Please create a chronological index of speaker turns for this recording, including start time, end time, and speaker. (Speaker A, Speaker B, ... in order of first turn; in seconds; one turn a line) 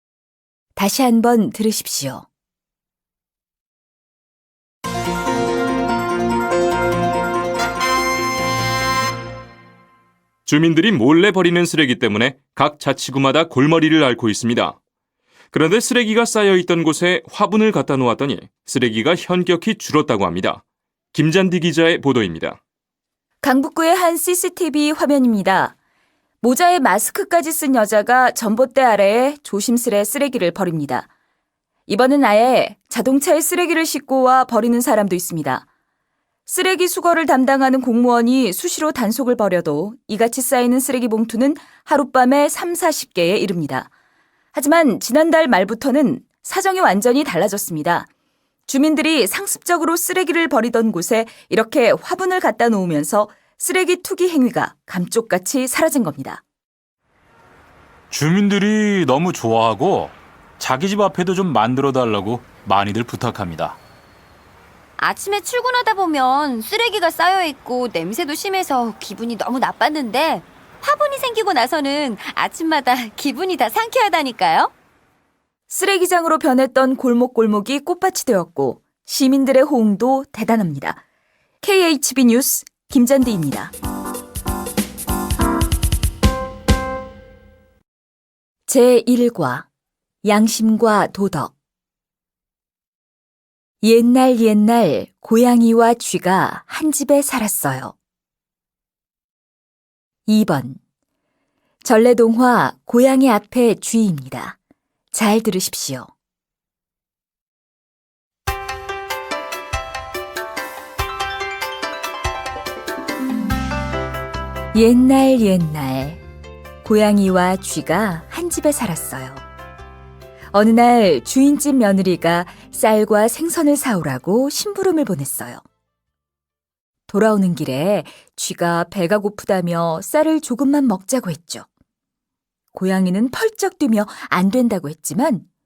Speaker A: 0.8-2.2
Speaker B: 10.5-14.8
Speaker B: 15.5-20.6
Speaker B: 21.1-22.6
Speaker A: 23.4-25.8
Speaker A: 26.4-31.1
Speaker A: 31.9-35.6
Speaker A: 36.5-43.9
Speaker A: 44.5-48.1
Speaker A: 48.7-56.4
Speaker C: 58.1-63.8
Speaker D: 65.0-74.7
Speaker A: 75.7-81.0
Speaker A: 81.6-83.7
Speaker A: 88.7-89.7
Speaker A: 90.2-91.5
Speaker A: 93.8-98.0
Speaker A: 100.3-100.8
Speaker A: 101.8-104.6
Speaker A: 105.1-106.1
Speaker A: 114.7-116.2
Speaker A: 116.8-119.4
Speaker A: 120.5-125.6
Speaker A: 127.1-131.7
Speaker A: 132.7-135.5